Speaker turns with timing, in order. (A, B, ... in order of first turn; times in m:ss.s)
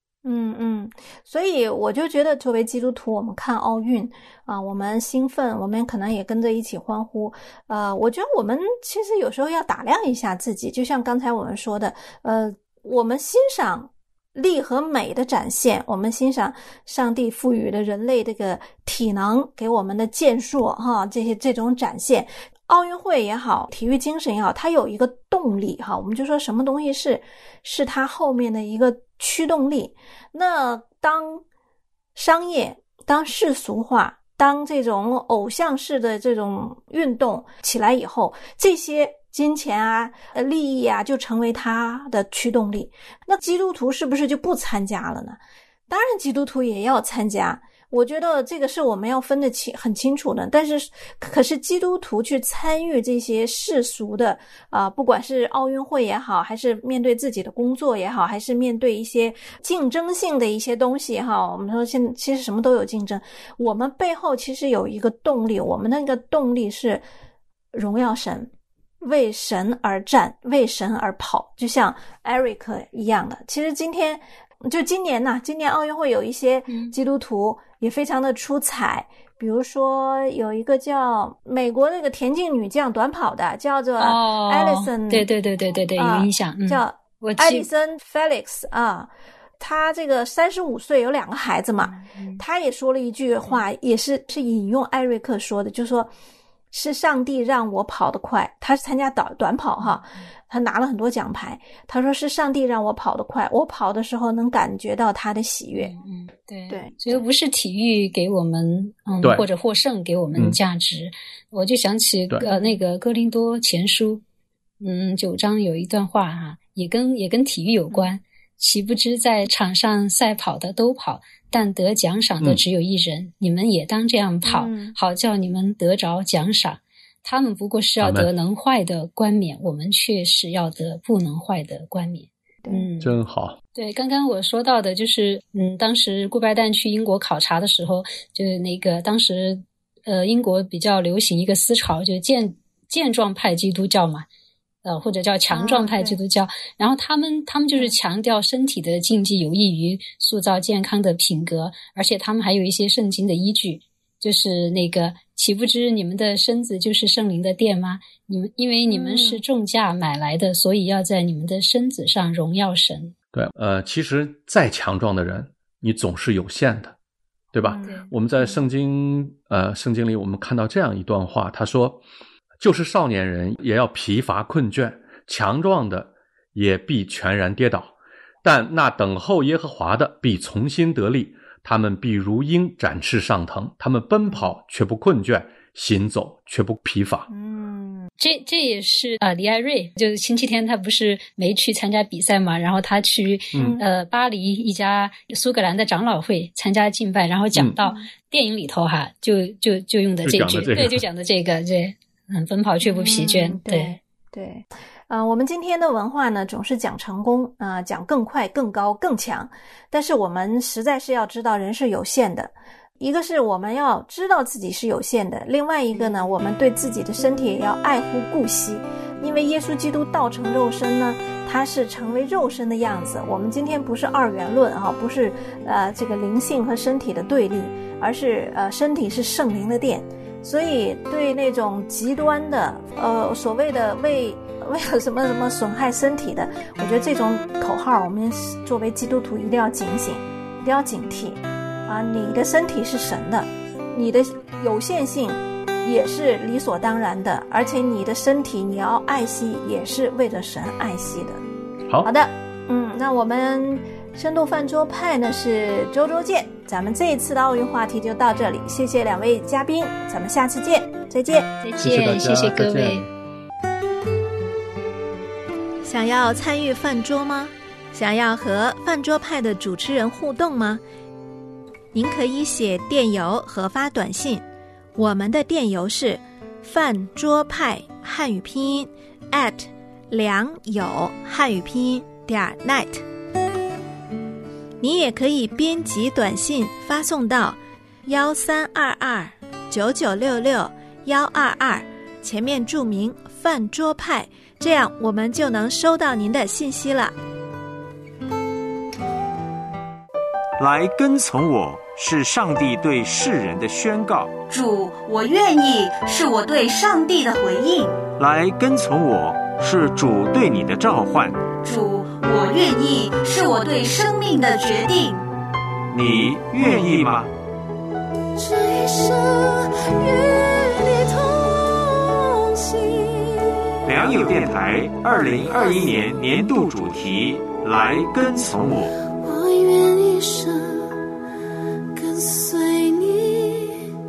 0:00.2-0:31.4 A
0:32.2-1:07.0 A
1:07.7-1:25.3 A
1:16.7-1:16.9 B
1:24.0-1:27.7 B
1:25.9-1:36.1 A
1:31.9-1:32.4 B
1:36.7-1:46.0 A
1:39.8-1:40.2 B
1:45.8-1:54.2 B
1:46.7-1:47.2 A
1:52.4-1:52.8 A
1:54.8-2:13.2 B
2:04.5-2:05.0 A
2:08.0-2:08.3 C
2:12.6-2:12.9 A
2:13.0-2:13.6 C
2:13.7-2:24.3 B
2:24.8-2:43.1 B
2:25.5-2:26.2 A
2:38.9-2:39.4 A
2:43.3-2:46.9 C
2:47.5-2:52.0 C
2:47.6-2:48.5 A
2:47.8-2:48.1 B
2:52.6-3:07.3 C
3:07.3-3:08.1 A
3:08.2-3:24.0 B
3:13.5-3:13.8 C
3:13.6-3:13.8 A
3:20.2-3:21.0 C
3:22.8-4:11.4 A
3:36.0-3:36.2 B
4:12.0-4:21.5 A
4:21.6-4:23.1 B
4:21.8-4:23.1 C
4:25.8-4:30.8 A
4:31.9-4:34.4 A
4:35.0-4:43.0 A
4:44.8-4:57.2 A
5:00.6-5:04.4 D
5:04.4-5:08.0 E
5:08.2-5:11.5 D
5:11.5-5:15.2 E
5:15.9-5:17.3 D
5:18.4-5:23.7 A
5:23.8-5:28.9 D
5:29.2-5:30.9 A
5:32.0-5:33.9 A